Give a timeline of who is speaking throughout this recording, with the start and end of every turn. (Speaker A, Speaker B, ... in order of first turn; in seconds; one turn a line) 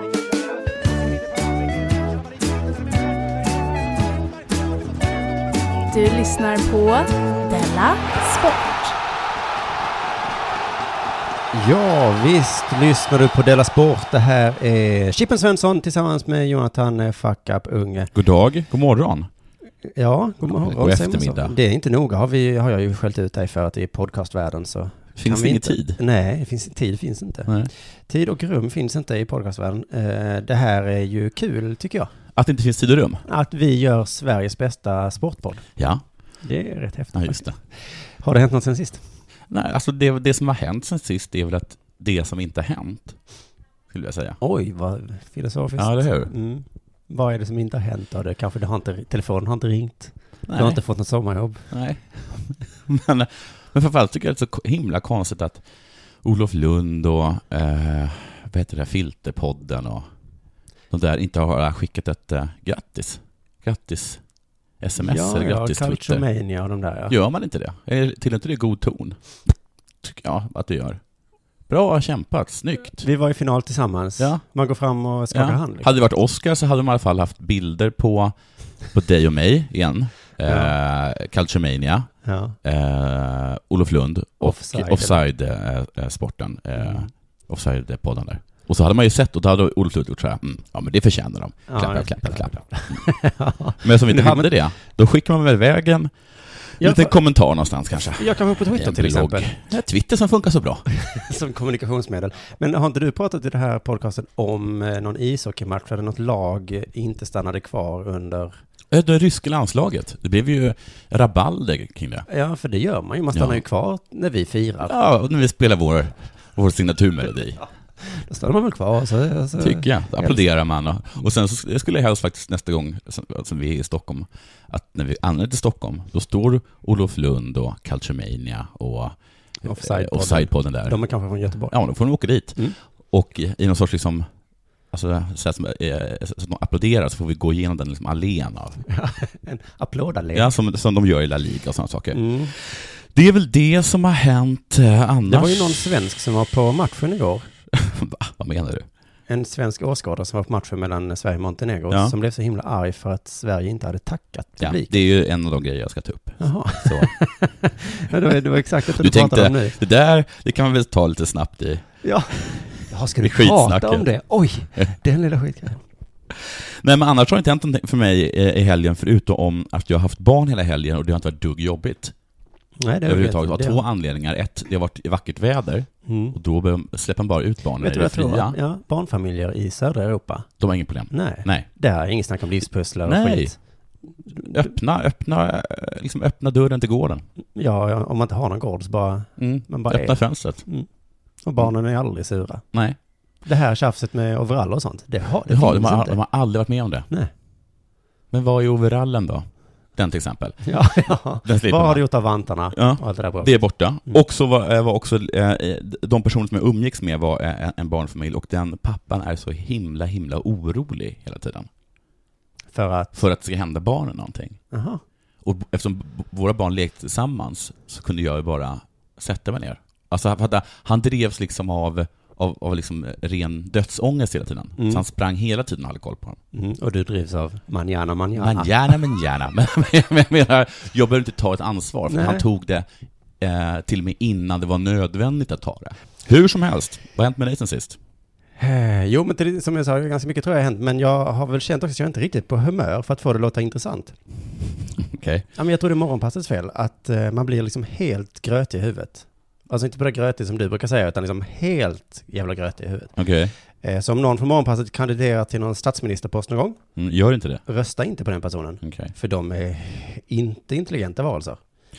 Speaker A: 5.9-8.9
Speaker B: 11.5-18.1
Speaker C: 18.1-19.3
Speaker B: 19.8-27.5
Speaker C: 20.5-21.5
Speaker C: 25.2-26.0
Speaker B: 28.1-32.1
Speaker C: 32.3-33.2
Speaker B: 33.2-35.6
Speaker C: 35.8-36.0
Speaker B: 36.4-39.0
Speaker C: 37.1-37.6
Speaker C: 39.5-43.2
Speaker C: 43.9-44.4
Speaker B: 44.4-51.7
Speaker C: 45.8-46.3
Speaker C: 50.5-50.8
Speaker C: 51.7-55.6
Speaker C: 56.2-60.1
Speaker C: 60.9-64.2
Speaker C: 64.8-66.2
Speaker B: 65.0-67.1
Speaker C: 67.1-71.0
Speaker C: 71.7-73.0
Speaker B: 73.0-75.9
Speaker C: 75.3-93.0
Speaker B: 80.4-80.7
Speaker B: 82.2-82.5
Speaker B: 84.4-85.2
Speaker B: 86.8-87.1
Speaker B: 91.7-94.5
Speaker C: 93.8-100.8
Speaker B: 96.8-97.2
Speaker B: 97.9-99.7
Speaker B: 101.0-108.5
Speaker C: 108.9-112.2
Speaker B: 112.3-114.9
Speaker C: 113.3-113.6
Speaker C: 114.8-117.6
Speaker B: 118.0-120.5
Speaker C: 119.6-129.2
Speaker B: 129.6-131.8
Speaker C: 129.7-131.0
Speaker C: 131.7-134.3
Speaker C: 134.9-138.8
Speaker B: 138.9-140.5
Speaker C: 140.3-145.8
Speaker B: 142.1-142.5
Speaker B: 145.3-147.5
Speaker C: 147.7-148.9
Speaker B: 149.3-154.9
Speaker C: 154.6-157.1
Speaker B: 156.4-159.8
Speaker C: 158.8-162.7
Speaker B: 162.0-165.8
Speaker C: 163.2-164.1
Speaker C: 166.3-172.1
Speaker B: 172.8-173.8
Speaker C: 173.0-178.6
Speaker B: 176.1-176.4
Speaker B: 177.8-180.5
Speaker C: 180.6-181.7
Speaker B: 181.1-183.6
Speaker C: 183.1-183.5
Speaker B: 184.2-184.7
Speaker C: 184.4-187.2
Speaker B: 187.5-190.9
Speaker C: 189.4-190.6
Speaker B: 191.4-192.6
Speaker B: 193.4-196.2
Speaker C: 195.5-197.1
Speaker C: 198.3-202.0
Speaker B: 200.6-204.2
Speaker C: 202.7-211.7
Speaker B: 212.7-213.1
Speaker C: 213.1-214.6
Speaker B: 214.7-215.0
Speaker C: 215.4-226.4
Speaker B: 224.8-225.0
Speaker B: 226.5-228.9
Speaker C: 228.4-232.8
Speaker B: 232.1-232.4
Speaker C: 233.4-238.0
Speaker B: 238.6-244.2
Speaker C: 245.1-245.4
Speaker B: 245.5-253.1
Speaker C: 253.2-253.5
Speaker B: 253.8-256.8
Speaker C: 256.9-257.6
Speaker B: 257.6-261.6
Speaker C: 258.8-259.1